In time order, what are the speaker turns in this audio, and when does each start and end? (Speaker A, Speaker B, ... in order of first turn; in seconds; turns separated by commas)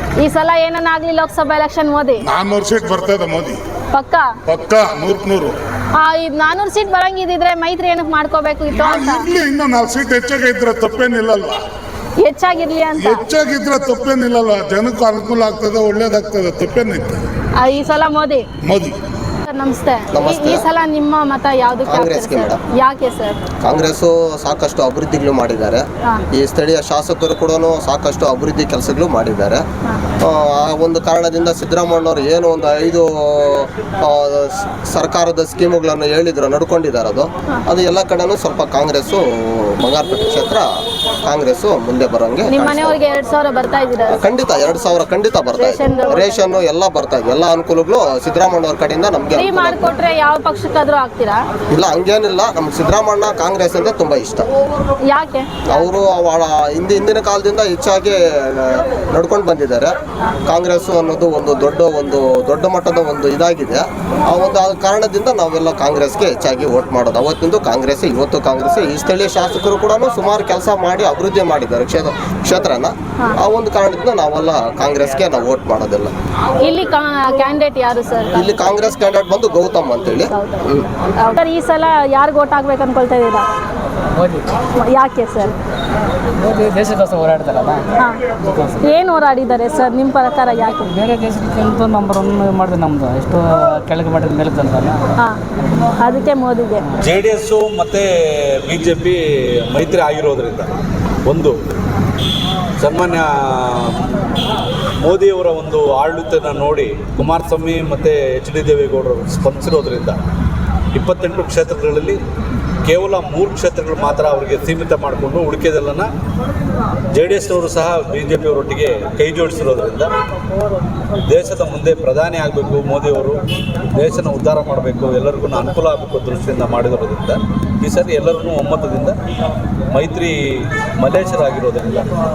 Speaker A: 0.2-2.2, Speaker B: 2.2-3.5, Speaker A: 3.9-4.3, Speaker B: 4.5-5.5, Speaker A: 5.9-9.2, Speaker B: 8.7-11.6, Speaker A: 12.2-13.2, Speaker B: 13.0-17.2, Speaker A: 17.6-18.4, Speaker B: 18.6-18.9, Speaker A: 19.4-23.4, Speaker C: 20.1-20.6, Speaker C: 21.9-22.6, Speaker C: 23.6-29.6, Speaker C: 30.2-43.0, Speaker A: 42.5-44.2, Speaker C: 44.1-49.9, Speaker A: 45.5-46.4, Speaker A: 49.4-51.4, Speaker C: 51.7-54.5, Speaker A: 55.0-55.5, Speaker C: 55.7-76.1, Speaker A: 76.6-78.5, Speaker C: 78.3-80.9, Speaker A: 80.3-80.7, Speaker A: 81.2-83.5, Speaker D: 84.2-84.4, Speaker A: 84.8-85.5, Speaker D: 86.4-87.9, Speaker D: 88.4-88.9, Speaker A: 88.8-90.9, Speaker D: 90.9-95.0, Speaker A: 96.0-96.9, Speaker E: 97.0-98.1, Speaker E: 98.6-99.2, Speaker E: 99.7-100.7, Speaker E: 101.2-101.6, Speaker E: 102.8-104.1, Speaker E: 105.0-110.2, Speaker E: 110.9-112.2, Speaker E: 112.9-116.1, Speaker E: 117.1-120.1, Speaker E: 121.3-123.4, Speaker E: 123.9-129.2, Speaker E: 129.9-132.1